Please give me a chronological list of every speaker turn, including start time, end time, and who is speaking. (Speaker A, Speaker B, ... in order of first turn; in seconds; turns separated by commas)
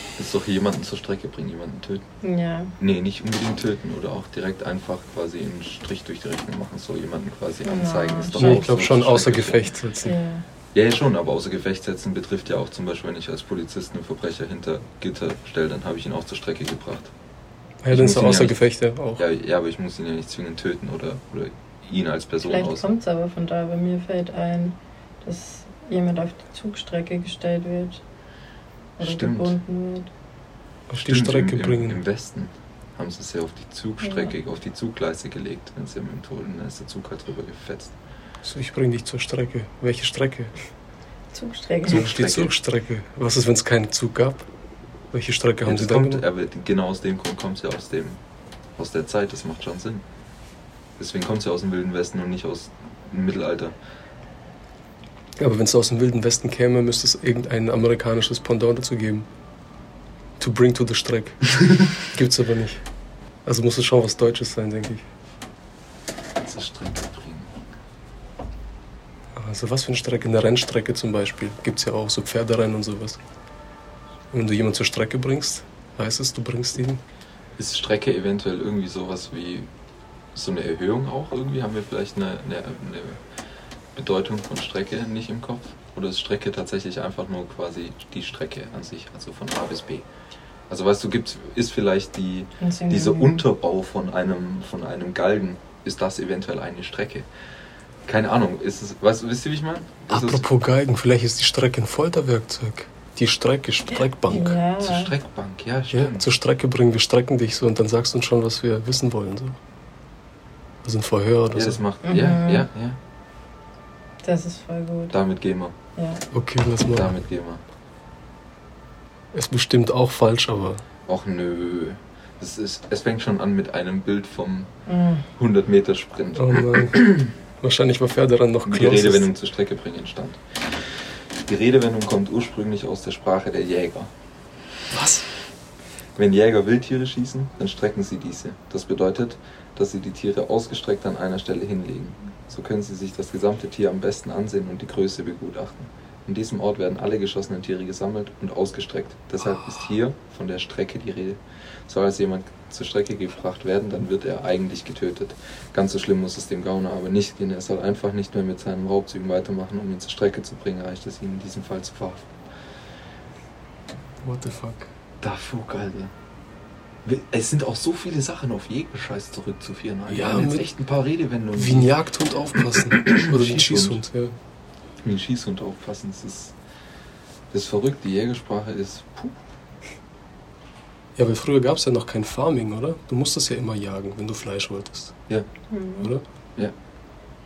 Speaker A: 0.2-2.0, Speaker B: 2.2-2.8, Speaker A: 2.8-9.7, Speaker B: 7.6-8.7, Speaker C: 8.3-10.2, Speaker B: 10.0-10.4, Speaker A: 10.7-17.1, Speaker C: 17.8-19.2, Speaker A: 17.9-18.6, Speaker A: 19.2-22.9, Speaker B: 22.4-28.0, Speaker B: 29.0-30.1, Speaker A: 29.0-29.6, Speaker C: 30.9-32.0, Speaker A: 31.0-38.0, Speaker B: 34.0-34.3, Speaker C: 38.4-40.5, Speaker B: 41.3-42.1, Speaker A: 41.9-42.6, Speaker C: 41.9-44.5, Speaker C: 45.1-46.2, Speaker A: 45.6-48.2, Speaker A: 48.8-50.0, Speaker A: 51.0-53.8, Speaker C: 55.4-59.3, Speaker C: 60.4-62.8, Speaker C: 63.5-65.0, Speaker A: 66.4-67.5, Speaker C: 69.4-73.2, Speaker C: 74.3-77.0, Speaker A: 77.6-79.7, Speaker A: 80.3-83.2, Speaker A: 84.0-90.1, Speaker A: 90.7-97.3, Speaker B: 92.6-93.5, Speaker A: 98.1-100.5, Speaker C: 100.1-104.6, Speaker B: 104.3-105.1, Speaker A: 104.3-106.3, Speaker C: 105.9-109.6, Speaker C: 110.8-111.8, Speaker A: 111.5-113.0, Speaker B: 112.0-112.7, Speaker B: 114.2-115.2, Speaker A: 115.1-115.7, Speaker B: 116.0-116.2, Speaker C: 116.3-117.2, Speaker A: 116.9-117.6, Speaker C: 119.3-120.8, Speaker A: 121.1-124.7, Speaker B: 124.9-125.2, Speaker A: 125.4-127.3, Speaker C: 126.4-129.3, Speaker A: 128.7-130.6, Speaker A: 131.5-134.1, Speaker C: 134.9-135.2, Speaker A: 136.2-162.3, Speaker C: 164.2-164.9, Speaker A: 165.2-166.1, Speaker A: 167.1-171.9, Speaker C: 170.1-170.7, Speaker C: 171.6-174.3, Speaker A: 172.6-174.0, Speaker A: 175.0-176.6, Speaker A: 177.5-179.3, Speaker C: 181.2-185.2, Speaker B: 185.7-186.1